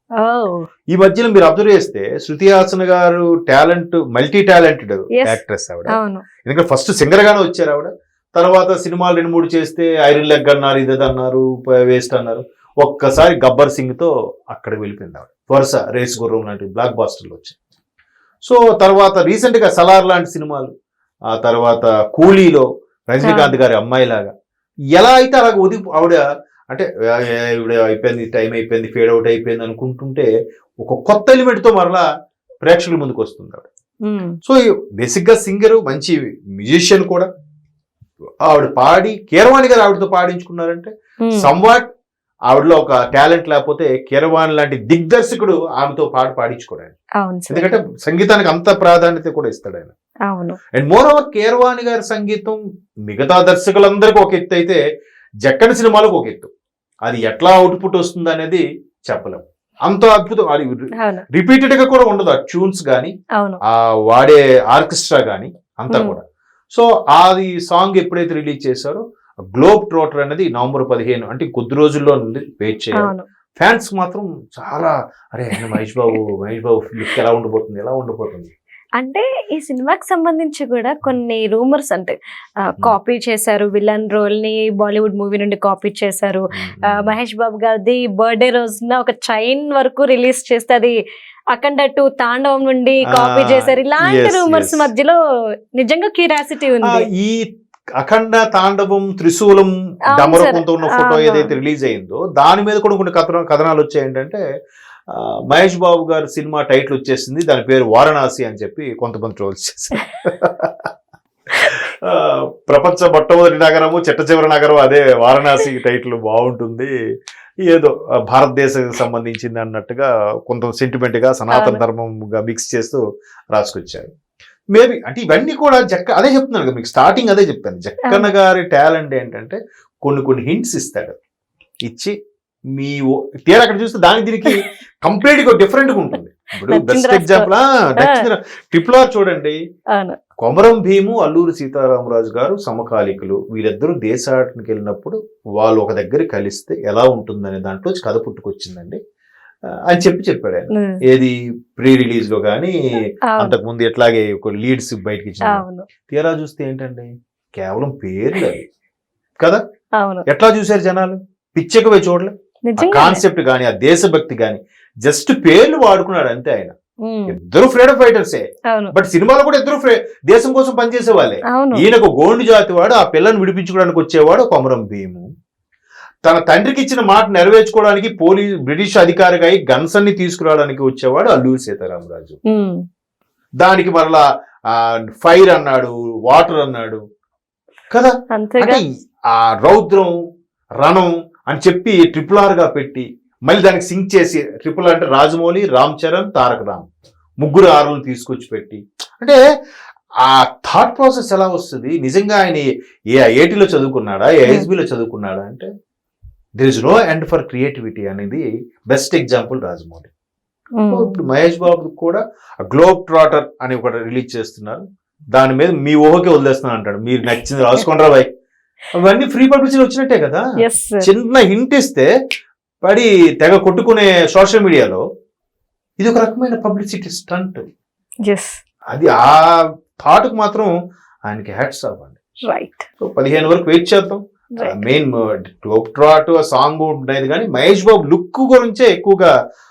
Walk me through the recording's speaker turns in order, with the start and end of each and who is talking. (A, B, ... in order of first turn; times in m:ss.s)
0:00.2-0:00.7 A
0:00.9-0:17.6 B
0:05.2-0:06.2 A
0:18.4-0:20.7 B
0:21.3-0:24.3 B
0:23.2-0:23.6 A
0:24.9-0:30.3 B
0:30.8-0:32.0 B
0:32.6-0:33.7 B
0:34.0-0:34.4 A
0:34.4-0:37.3 B
0:38.4-0:41.9 B
0:42.5-0:47.0 B
0:47.2-0:47.8 A
0:47.5-0:49.9 B
0:50.3-0:50.6 A
0:50.7-0:54.8 B
0:55.4-0:56.5 B
0:57.0-1:03.1 B
1:01.0-1:01.2 A
1:03.7-1:06.2 B
1:05.9-1:06.2 A
1:06.7-1:09.0 B
1:09.5-1:18.5 B
1:13.0-1:13.2 A
1:19.0-1:31.0 A
1:26.5-1:27.1 B
1:31.5-1:35.2 A
1:33.1-1:34.9 B
1:35.8-1:37.0 A
1:36.8-1:37.4 B
1:38.0-1:44.4 B
1:40.2-1:41.5 A
1:45.1-1:50.9 B
1:51.6-1:56.9 B
1:57.6-2:03.0 B
2:01.5-2:01.8 A
2:03.5-2:04.1 B
2:04.7-2:11.2 B
2:11.8-2:12.1 B
2:12.7-2:19.6 B
2:16.7-2:17.5 A
2:18.0-2:18.2 A
2:20.4-2:29.0 B
2:29.9-2:32.7 B
2:33.4-2:38.6 B
2:35.5-2:35.8 A
2:40.0-2:40.2 A
2:40.3-2:46.7 B
2:42.7-2:43.2 A
2:47.0-2:47.3 A
2:47.3-2:55.3 B
2:51.5-2:51.8 A
2:56.2-3:02.4 B
3:02.5-3:02.8 A
3:03.6-3:07.0 B
3:07.9-3:10.1 B
3:08.3-3:08.8 A
3:10.8-3:16.9 B
3:17.4-3:19.4 B
3:20.2-3:25.7 B
3:26.6-3:30.1 B
3:30.8-3:31.2 A
3:30.9-3:34.8 B
3:35.3-3:38.3 B
3:39.0-3:40.4 B
3:40.6-3:41.1 A
3:41.0-3:42.1 B
3:42.8-3:45.0 B
3:46.0-3:47.6 B
3:48.2-3:48.6 A
3:48.9-3:49.4 B
3:50.0-3:50.7 B
3:51.3-3:52.2 B
3:52.5-3:52.9 A
3:53.0-3:59.3 B